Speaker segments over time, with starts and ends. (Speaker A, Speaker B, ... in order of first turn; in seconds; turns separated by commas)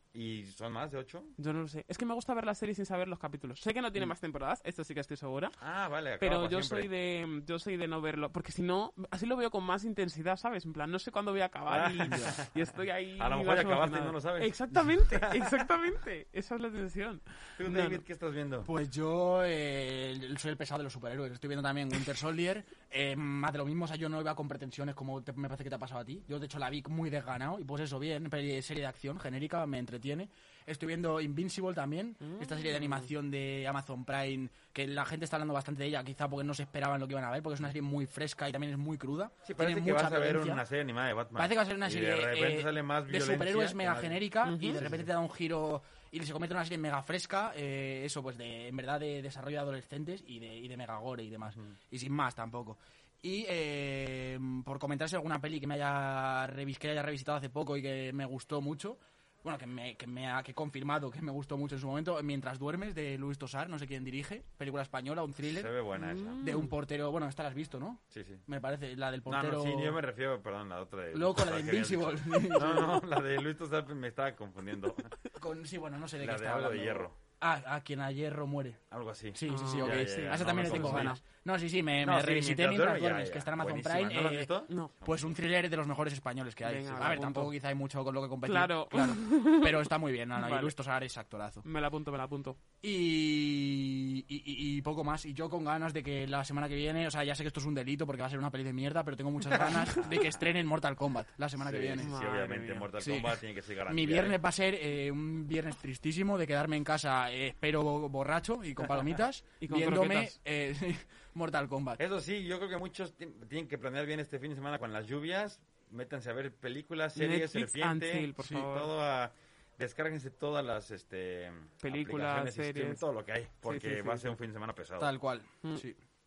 Speaker A: 0.1-1.3, Speaker B: 1.4-5.6, Speaker A: 5.6-6.9, Speaker B: 6.2-18.0, Speaker A: 11.7-15.7, Speaker C: 12.1-12.3, Speaker A: 17.6-18.7, Speaker C: 18.6-40.6, Speaker B: 32.2-33.1, Speaker A: 39.4-45.1, Speaker C: 41.4-65.7, Speaker B: 44.4-44.8, Speaker A: 51.5-51.7, Speaker A: 65.4-66.4, Speaker B: 65.9-66.7, Speaker C: 66.4-70.0, Speaker A: 68.1-68.4, Speaker A: 69.2-75.2, Speaker C: 71.1-73.0, Speaker C: 75.3-78.8, Speaker A: 76.2-77.2, Speaker A: 78.9-81.2, Speaker C: 79.3-91.7, Speaker B: 79.5-81.2, Speaker A: 82.0-85.3, Speaker B: 86.6-87.5, Speaker A: 86.9-87.3, Speaker B: 88.5-90.7, Speaker B: 91.6-92.6, Speaker C: 92.8-102.1, Speaker B: 99.5-100.1, Speaker A: 101.6-104.4, Speaker B: 102.0-102.9, Speaker C: 103.0-112.0, Speaker B: 109.6-110.3, Speaker A: 112.0-125.1, Speaker B: 117.2-118.9, Speaker B: 121.8-123.0, Speaker B: 123.7-124.4, Speaker C: 125.0-126.0